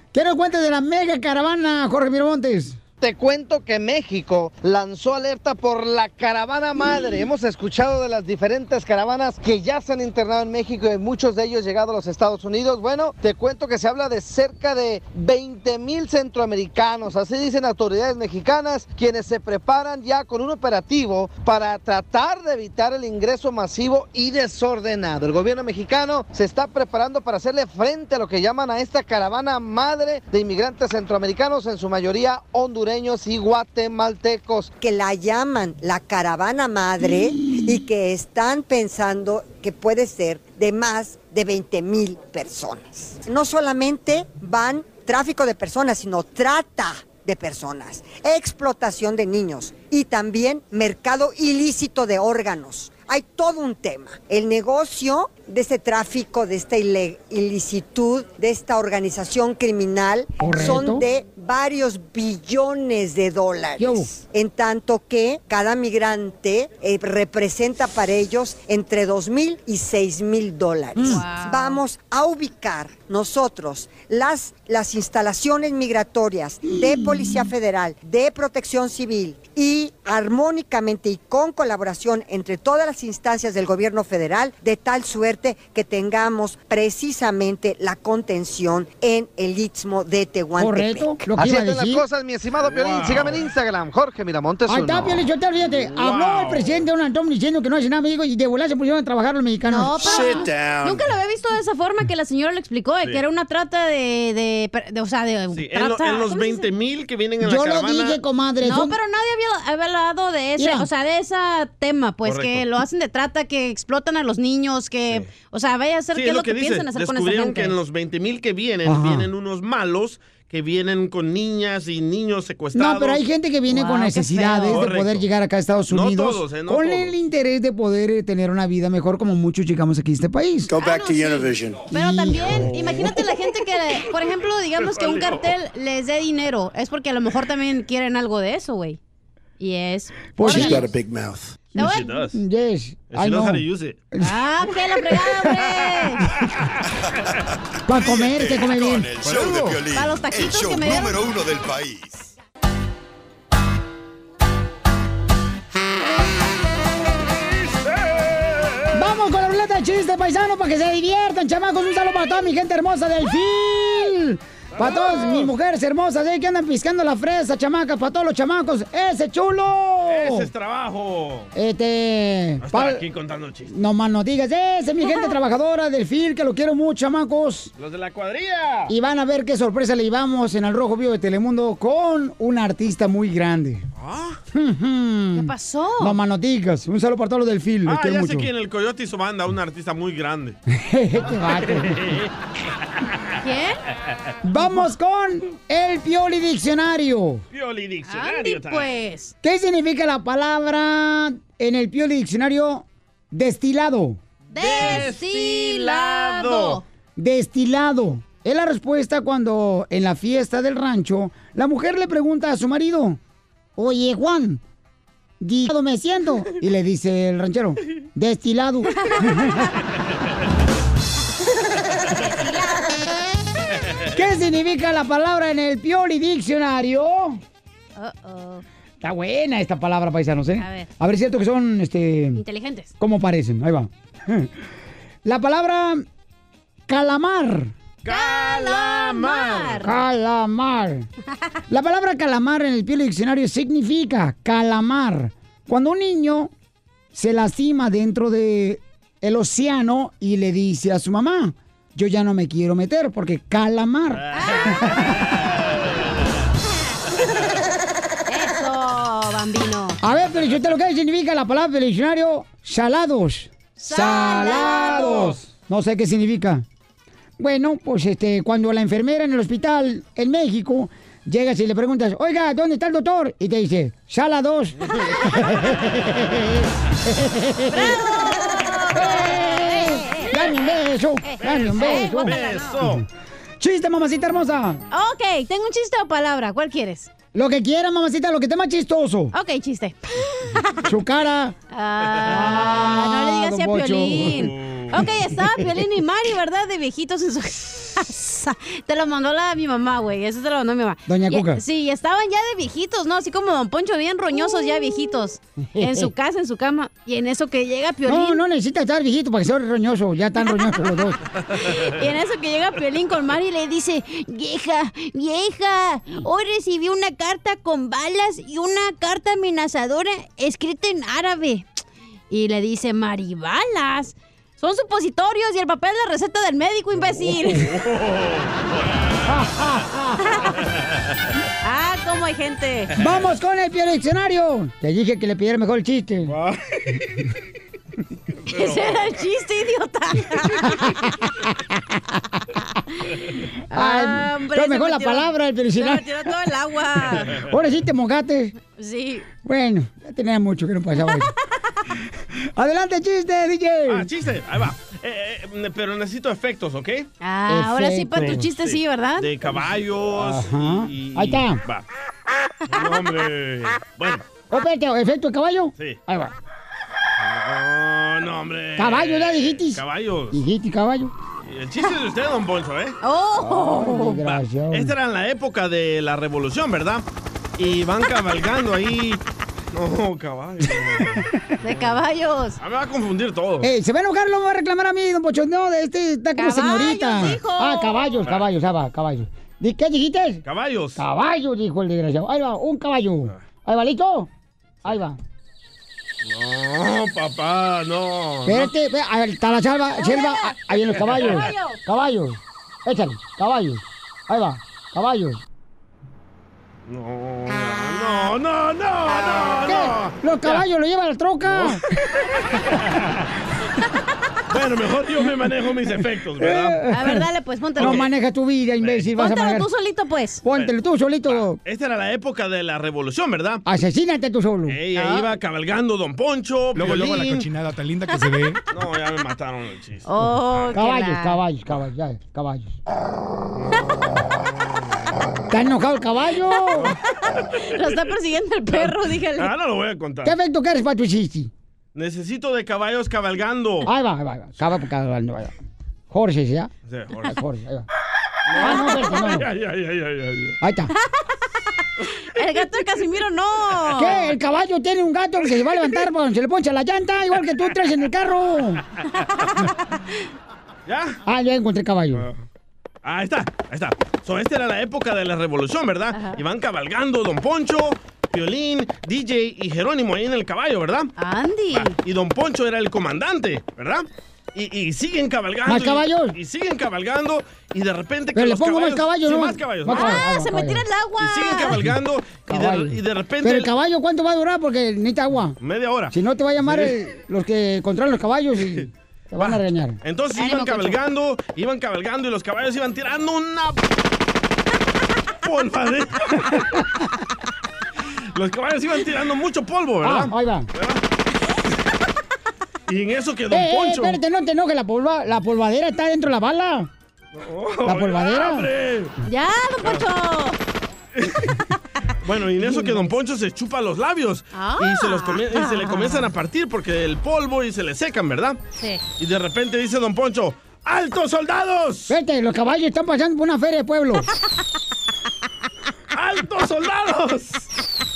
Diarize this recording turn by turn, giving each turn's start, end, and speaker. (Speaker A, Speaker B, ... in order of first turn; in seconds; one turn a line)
Speaker A: 0.1-2.8
Speaker B: 3.0-34.7
Speaker C: 34.8-91.2
Speaker A: 60.4-61.0
Speaker A: 63.8-64.1
Speaker A: 71.0-71.2
Speaker D: 71.0-71.8
Speaker A: 90.6-92.0
Speaker B: 91.3-95.2
Speaker E: 92.6-93.4
Speaker A: 94.7-100.2
Speaker E: 95.7-96.8
Speaker D: 99.7-106.7
Speaker F: 100.0-101.1
Speaker E: 105.5-108.2
Speaker A: 107.4-109.0
Speaker D: 108.6-117.8
Speaker A: 110.6-110.9
Speaker E: 112.2-112.7
Speaker E: 116.1-123.2
Speaker A: 118.8-119.3
Speaker A: 122.7-130.7
Speaker D: 123.7-124.8
Speaker E: 124.6-125.3
Speaker E: 125.9-127.1
Speaker F: 130.7-131.9
Speaker D: 130.7-139.0
Speaker A: 131.9-132.7
Speaker F: 132.5-132.9
Speaker E: 134.8-135.4
Speaker D: 139.6-140.8
Speaker A: 140.3-140.8
Speaker F: 140.4-141.5
Speaker E: 141.7-142.4
Speaker D: 141.8-142.1
Speaker A: 142.3-143.6
Speaker E: 143.1-144.0
Speaker D: 144.2-146.2
Speaker A: 147.9-149.7
Speaker G: 147.9-152.3
Speaker D: 149.9-151.2
Speaker E: 158.1-158.8
Speaker A: 158.9-170.5
Speaker E: 164.7-165.5
Speaker E: 170.1-171.5
Speaker A: 171.5-173.0
Speaker E: 172.6-173.7
Speaker A: 173.7-177.7
Speaker E: 177.8-178.9
Speaker A: 178.9-183.8
Speaker E: 184.0-184.4
Speaker A: 184.5-188.5
Speaker D: 185.3-186.2
Speaker E: 187.8-190.6
Speaker A: 190.7-192.1
Speaker E: 191.7-192.3
Speaker D: 193.4-193.8
Speaker A: 194.4-197.4
Speaker E: 197.5-198.9
Speaker D: 198.1-199.3
Speaker A: 199.4-204.2
Speaker D: 204.5-206.8
Speaker E: 204.5-206.8
Speaker A: 207.2-213.2
Speaker A: 213.8-214.6
Speaker A: 215.4-219.6
Speaker D: 222.1-223.1
Speaker A: 224.1-227.4
Speaker D: 227.9-228.6
Speaker A: 229.0-232.4
Speaker D: 230.6-230.9
Speaker D: 232.4-232.9
Speaker A: 233.0-234.5
Speaker A: 235.2-236.0
Speaker A: 236.9-237.7
Speaker E: 238.0-239.9
Speaker D: 238.1-239.9
Speaker A: 239.8-241.1
Speaker A: 241.7-246.5
Speaker A: 247.1-255.2
Speaker D: 254.3-254.9
Speaker D: 258.3-260.0
Speaker A: 260.0-266.6
Speaker D: 263.8-265.2
Speaker E: 264.9-265.3
Speaker A: 267.4-278.0
Speaker D: 277.7-280.6
Speaker A: 278.9-283.0
Speaker D: 281.2-282.8
Speaker E: 281.4-283.0
Speaker A: 283.6-284.8
Speaker D: 284.9-287.1
Speaker A: 287.3-289.3
Speaker D: 289.3-290.9
Speaker A: 290.9-291.6
Speaker D: 291.7-308.4
Speaker E: 292.1-292.7
Speaker A: 292.2-294.5
Speaker E: 294.3-295.0
Speaker A: 301.1-301.6
Speaker A: 305.8-306.1
Speaker A: 308.1-311.2
Speaker D: 311.8-321.7
Speaker D: 322.3-327.7
Speaker E: 327.1-328.7
Speaker A: 329.3-330.2
Speaker D: 330.2-330.5
Speaker D: 331.6-332.9
Speaker A: 333.0-336.3
Speaker E: 336.2-337.1
Speaker E: 338.4-339.2
Speaker D: 338.5-340.9
Speaker D: 343.7-347.4
Speaker A: 343.7-346.3
Speaker E: 347.1-347.5
Speaker A: 347.3-348.5
Speaker D: 348.6-349.3
Speaker A: 349.3-351.3
Speaker A: 352.6-354.1
Speaker E: 353.9-357.1
Speaker D: 357.2-359.3
Speaker A: 357.5-358.4
Speaker E: 358.1-361.8
Speaker A: 360.2-361.6
Speaker E: 362.7-364.2
Speaker A: 364.5-366.3
Speaker E: 367.2-370.4
Speaker A: 368.8-369.8
Speaker A: 370.3-371.1
Speaker E: 371.4-373.0
Speaker D: 373.0-374.2
Speaker A: 373.4-374.9
Speaker E: 374.1-377.0
Speaker E: 377.6-381.9
Speaker A: 381.0-381.3
Speaker D: 381.6-382.6
Speaker E: 382.6-383.7
Speaker A: 383.6-390.4
Speaker D: 386.4-388.1
Speaker E: 390.4-391.0
Speaker A: 391.0-394.3
Speaker A: 394.8-395.2
Speaker E: 396.2-398.7
Speaker A: 398.5-405.4
Speaker D: 400.0-401.8
Speaker E: 400.9-401.5
Speaker E: 406.9-410.2
Speaker A: 409.6-411.8
Speaker E: 411.4-411.8
Speaker E: 414.5-416.8
Speaker A: 416.4-419.7
Speaker D: 416.9-418.1
Speaker E: 417.8-418.1
Speaker E: 418.8-419.1
Speaker D: 419.2-420.4
Speaker A: 420.4-421.6
Speaker E: 421.2-423.6
Speaker A: 423.6-424.8
Speaker E: 424.7-427.6
Speaker D: 424.9-425.3
Speaker E: 428.7-430.1
Speaker D: 430.1-431.4
Speaker A: 430.7-432.8
Speaker A: 435.5-436.9
Speaker D: 437.6-439.5
Speaker E: 438.7-440.3
Speaker A: 440.2-441.5
Speaker E: 441.9-443.9
Speaker A: 443.8-445.5
Speaker A: 446.1-446.7
Speaker E: 446.9-447.4
Speaker A: 447.2-447.9
Speaker E: 448.5-450.6
Speaker A: 448.6-449.5
Speaker D: 448.6-449.1
Speaker A: 450.6-450.9
Speaker D: 452.3-454.2
Speaker A: 454.0-458.8
Speaker D: 459.4-460.1
Speaker E: 460.9-461.2
Speaker A: 461.2-462.2
Speaker E: 462.1-462.4
Speaker E: 463.0-471.1
Speaker D: 466.1-466.4
Speaker D: 471.2-472.0
Speaker E: 471.7-480.2
Speaker A: 475.6-476.4
Speaker A: 478.3-480.8
Speaker D: 479.9-481.9
Speaker E: 481.2-483.7
Speaker A: 482.5-485.6
Speaker E: 485.6-486.9
Speaker A: 486.1-490.0
Speaker E: 489.4-493.8
Speaker D: 490.4-491.0
Speaker E: 495.4-496.6
Speaker E: 498.3-501.0
Speaker A: 500.0-500.7
Speaker E: 502.9-504.2
Speaker A: 503.5-506.9
Speaker E: 507.3-509.1
Speaker A: 507.9-508.7
Speaker D: 509.2-510.6
Speaker E: 509.8-510.1
Speaker E: 511.1-511.5
Speaker E: 512.2-518.6
Speaker D: 514.5-516.3
Speaker D: 518.8-519.0
Speaker E: 519.2-522.1
Speaker A: 522.1-524.3
Speaker E: 526.1-527.7